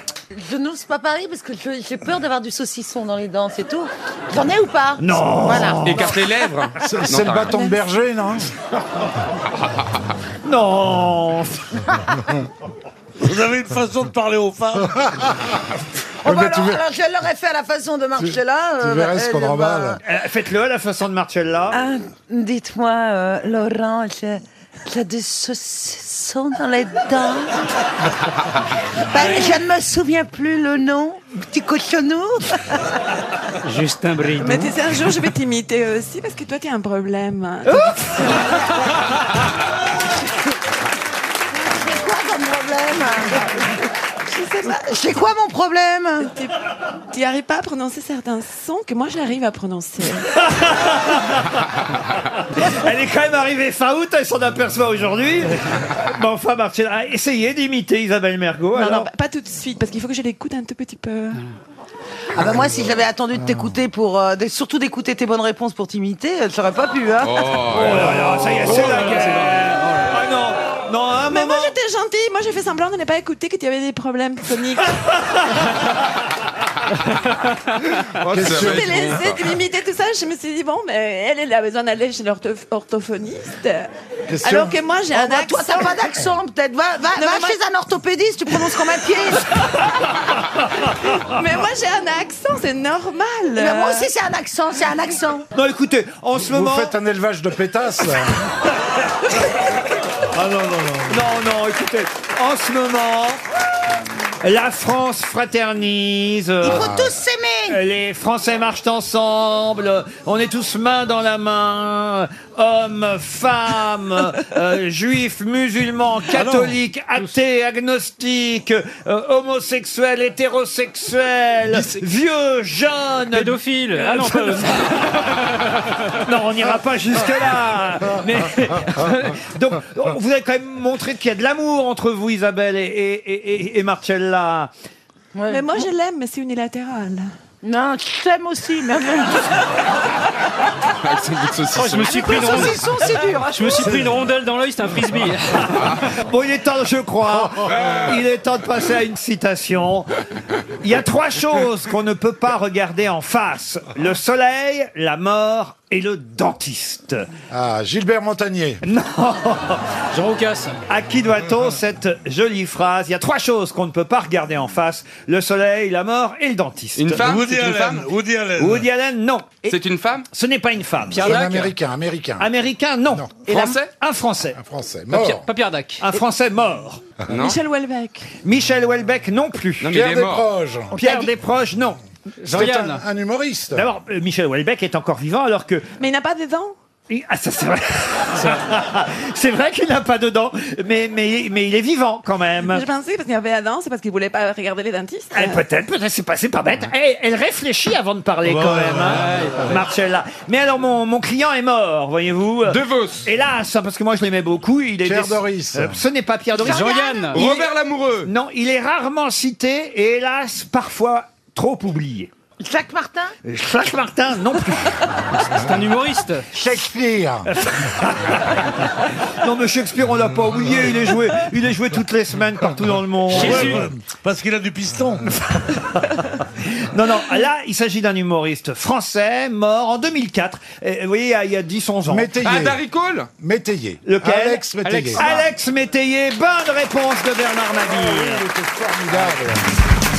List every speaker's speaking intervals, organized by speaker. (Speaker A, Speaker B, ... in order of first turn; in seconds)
Speaker A: 0.3-6.1, 7.5-7.8, 16.2-20.0, 21.7-27.6, 29.1-32.7, 41.6-43.5, 44.6-46.3, 62.4-67.6, 85.1-89.6, 93.6-95.4, 106.6-107.8, 135.3-135.8, 137.6-139.5, 141.8-143.8, 212.6-213.3
Speaker B: 5.0-6.2, 10.4-11.8, 20.0-21.8, 50.4-51.6, 52.3-59.1, 67.7-71.7, 95.5-96.9, 101.1-103.4, 104.4-106.9, 107.7-124.6, 126.3-134.7, 146.3-150.1, 150.8-157.3, 158.8-159.8, 160.9-167.2, 168.6-169.7, 170.3-171.4, 172.4-174.6, 176.0-177.0, 178.4-180.0, 180.9-182.0, 183.7-185.9, 187.1-192.8, 195.3-207.5, 208.2-212.3, 213.4-214.9, 217.5-218.9, 219.4-223.9, 226.7-232.3, 234.1-238.4
Speaker C: 5.8-7.6, 67.3-68.0, 78.3-79.3, 147.7-148.1, 167.0-168.1, 169.7-170.3, 173.5-173.9, 177.3-177.6, 179.8-180.5, 202.7-203.2, 207.3-208.3, 232.4-233.3
Speaker D: 6.8-8.5, 14.9-15.3, 16.3-16.8, 18.2-20.0, 78.2-79.5, 84.3-84.8, 96.4-98.4, 106.7-107.1, 116.4-116.7, 157.5-158.8, 171.2-172.5, 173.1-173.4, 174.6-175.5, 179.8-181.0, 182.4-183.8, 198.4-199.6, 205.0-206.0, 216.6-217.4, 223.3-224.0, 232.1-232.8, 233.4-235.4, 237.8-239.6
Speaker E: 13.2-14.9, 167.2-168.9, 223.4-225.5
Speaker F: 33.6-34.8, 68.1-70.1, 123.3-125.6, 141.8-142.8, 143.4-146.0, 160.1-160.8, 171.1-171.8, 175.1-176.0, 182.4-183.0, 199.1-199.7, 206.7-207.4, 215.3-216.4, 223.4-223.8, 234.8-235.4
Speaker G: 34.4-38.4, 44.3-44.8, 46.3-46.5, 47.1-50.3, 58.7-61.4, 71.3-75.1, 78.5-83.9, 84.4-86.0, 87.2-87.6, 91.0-94.1, 135.5-137.3, 177.4-178.3, 186.0-186.7, 192.7-195.6